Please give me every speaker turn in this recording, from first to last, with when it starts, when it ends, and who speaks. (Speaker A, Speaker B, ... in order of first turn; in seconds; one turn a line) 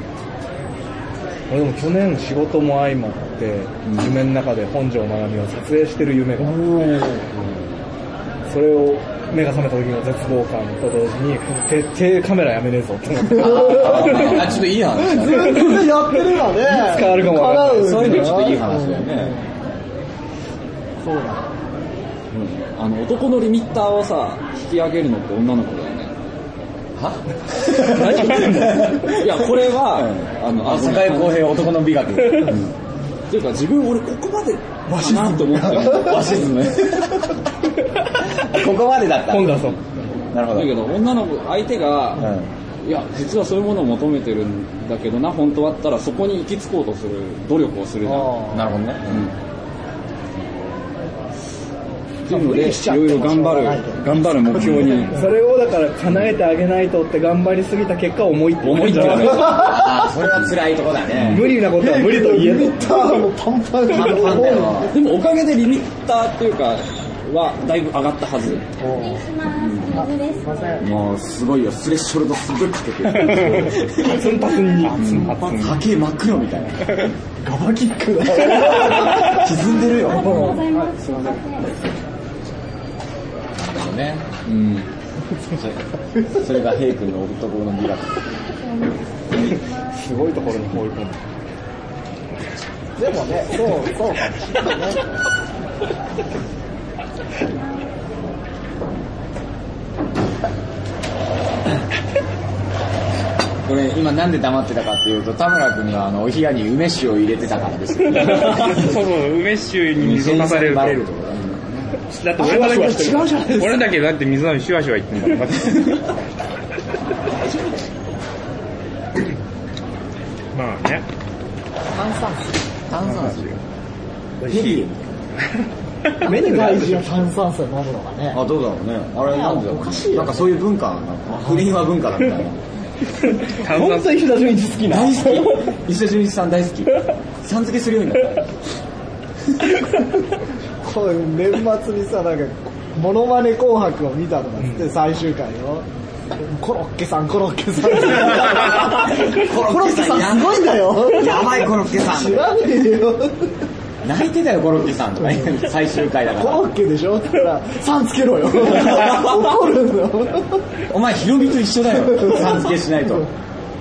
Speaker A: 1.5-6.7
Speaker B: 3.9-4.2
Speaker C: 6.4-7.3
Speaker A: 8.5-14.6
Speaker D: 13.3-15.8
Speaker C: 15.0-19.5
Speaker A: 16.6-18.5
Speaker D: 17.7-19.4
Speaker C: 21.0-21.5
Speaker B: 22.3-26.1
Speaker D: 27.0-32.7
Speaker A: 27.8-29.0
Speaker B: 29.1-31.6
Speaker B: 32.4-32.7
Speaker B: 33.3-36.4
Speaker C: 34.9-36.2
Speaker D: 35.7-37.4
Speaker D: 38.1-39.8
Speaker A: 39.3-39.8
Speaker D: 40.3-40.8
Speaker B: 40.5-48.4
Speaker D: 42.1-42.5
Speaker C: 48.0-48.6
Speaker D: 48.5-49.3
Speaker B: 49.1-49.3
Speaker B: 52.2-55.2
Speaker C: 52.3-55.2
Speaker A: 55.1-59.7
Speaker B: 58.6-59.9
Speaker D: 59.2-61.5
Speaker B: 61.1-61.5
Speaker A: 61.2-63.2
Speaker C: 61.7-64.9
Speaker D: 63.9-65.0
Speaker B: 64.9-68.6
Speaker C: 68.8-69.2
Speaker E: 68.8-70.8
Speaker B: 69.5-70.1
Speaker C: 69.9-70.9
Speaker D: 70.8-74.4
Speaker F: 73.1-73.7
Speaker A: 73.9-75.7
Speaker F: 74.8-75.8
Speaker B: 74.9-75.4
Speaker D: 75.5-77.1
Speaker C: 77.4-79.4
Speaker D: 78.6-80.6
Speaker E: 80.0-81.7
Speaker C: 80.1-80.7
Speaker D: 83.6-84.3
Speaker B: 84.4-84.9
Speaker D: 85.5-88.2
Speaker E: 88.4-90.2
Speaker A: 89.4-91.3
Speaker C: 93.0-95.0
Speaker D: 103.6-108.9
Speaker F: 108.1-111.0
Speaker D: 109.9-111.9
Speaker A: 112.1-113.5
Speaker C: 112.4-113.8
Speaker F: 113.4-116.0
Speaker F: 120.5-121.0
Speaker C: 121.9-122.5
Speaker D: 122.9-123.5
Speaker F: 123.0-123.6
Speaker A: 124.5-124.7
Speaker D: 124.5-125.3
Speaker F: 124.5-124.9
Speaker A: 126.2-127.2
Speaker C: 126.2-128.4
Speaker D: 128.3-132.6
Speaker C: 129.2-130.5
Speaker A: 133.2-135.7
Speaker F: 133.6-134.3
Speaker D: 134.9-138.5
Speaker C: 140.8-153.6
Speaker D: 147.9-152.6
Speaker D: 154.0-156.7
Speaker C: 156.3-160.6
Speaker D: 158.7-159.5
Speaker D: 160.9-163.3
Speaker C: 162.2-163.3